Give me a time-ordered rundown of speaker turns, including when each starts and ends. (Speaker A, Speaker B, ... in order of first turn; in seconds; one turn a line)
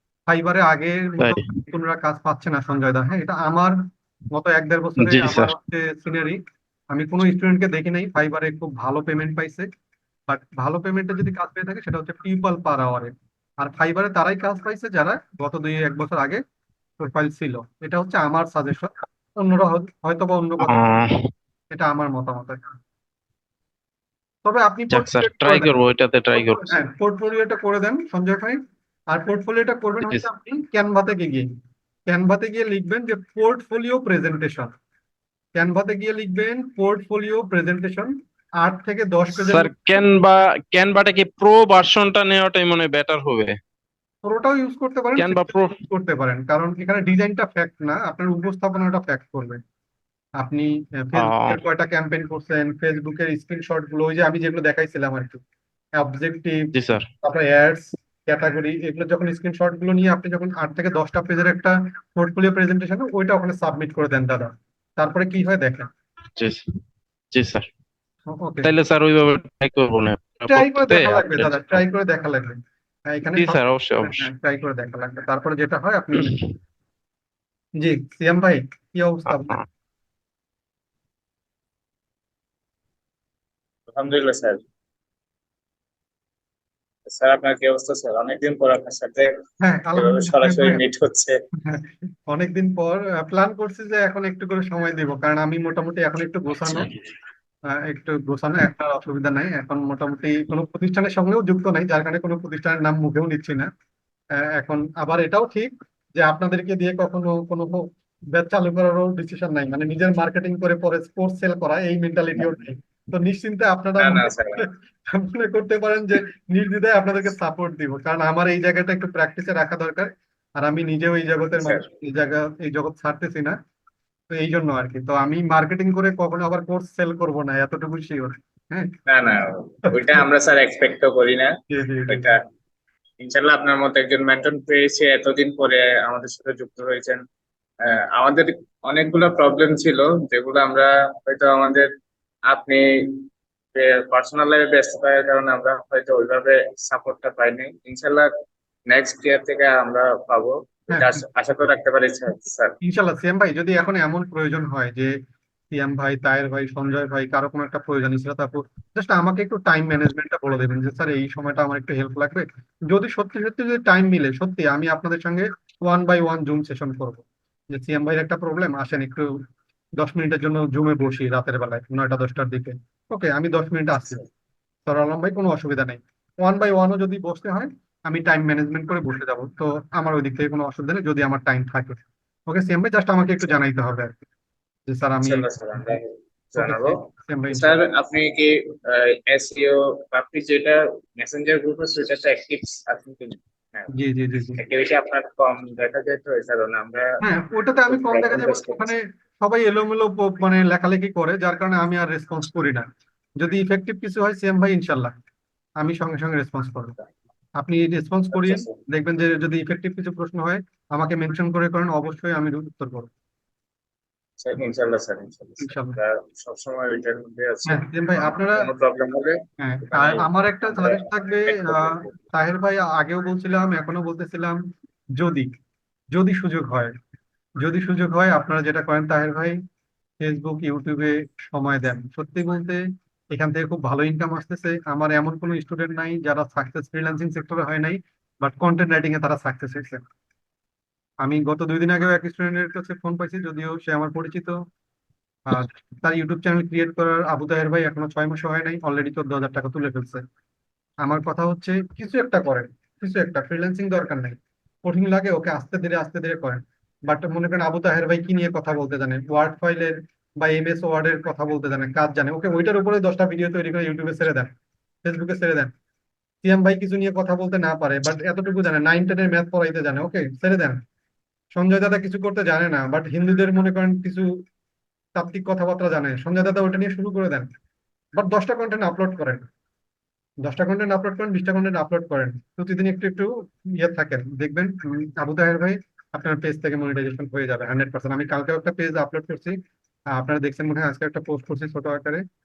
Speaker A: 0.3-3.8
Speaker B: 1.2-1.6
Speaker A: 4.3-6.4
Speaker B: 5.0-5.5
Speaker A: 6.9-9.7
Speaker A: 10.3-16.4
Speaker A: 17.0-20.9
Speaker B: 20.6-21.3
Speaker A: 21.7-22.6
Speaker A: 24.4-25.8
Speaker B: 24.9-26.8
Speaker A: 26.3-28.6
Speaker A: 29.1-31.5
Speaker A: 32.1-34.7
Speaker A: 35.6-40.0
Speaker B: 39.4-43.6
Speaker A: 44.2-49.6
Speaker B: 45.2-45.8
Speaker A: 50.4-55.4
Speaker B: 51.2-51.6
Speaker A: 56.0-56.7
Speaker B: 56.7-57.1
Speaker A: 57.2-65.9
Speaker B: 66.4-66.7
Speaker B: 67.3-67.7
Speaker A: 68.3-68.7
Speaker B: 68.6-71.8
Speaker A: 70.5-76.4
Speaker B: 73.4-74.3
Speaker B: 76.2-76.5
Speaker A: 77.8-79.5
Speaker B: 79.3-79.7
Speaker C: 83.9-84.6
Speaker C: 87.1-89.3
Speaker A: 89.6-90.8
Speaker C: 90.0-91.4
Speaker A: 91.6-96.9
Speaker A: 97.7-103.7
Speaker A: 104.4-123.6
Speaker C: 114.0-114.7
Speaker C: 121.6-121.8
Speaker A: 124.3-128.9
Speaker C: 129.1-131.5
Speaker A: 129.9-130.3
Speaker A: 131.7-132.3
Speaker C: 132.1-132.4
Speaker C: 133.2-137.2
Speaker C: 137.8-141.9
Speaker C: 142.5-148.3
Speaker C: 148.9-152.8
Speaker A: 150.9-151.2
Speaker A: 152.8-155.1
Speaker A: 155.7-169.3
Speaker A: 170.0-174.2
Speaker A: 174.9-184.2
Speaker A: 184.9-185.5
Speaker C: 185.2-187.0
Speaker A: 186.6-187.7
Speaker C: 187.5-193.9
Speaker A: 193.9-194.6
Speaker C: 194.6-197.2
Speaker A: 197.2-202.9
Speaker C: 197.9-198.9
Speaker A: 203.4-205.1
Speaker A: 205.8-207.0
Speaker A: 207.6-213.1
Speaker C: 208.3-208.8
Speaker C: 214.4-219.4
Speaker A: 215.6-216.0
Speaker A: 217.7-218.7
Speaker A: 219.6-224.6
Speaker C: 219.9-222.2
Speaker A: 225.2-225.5
Speaker A: 226.1-226.9
Speaker A: 227.6-229.6
Speaker A: 230.2-232.8
Speaker A: 233.3-240.0
Speaker A: 241.2-244.6
Speaker A: 245.5-250.2
Speaker A: 251.0-264.5
Speaker A: 265.0-265.7
Speaker A: 266.4-270.8
Speaker A: 271.6-274.3
Speaker A: 275.2-277.5
Speaker A: 278.2-279.5
Speaker A: 280.4-289.6
Speaker A: 290.1-292.2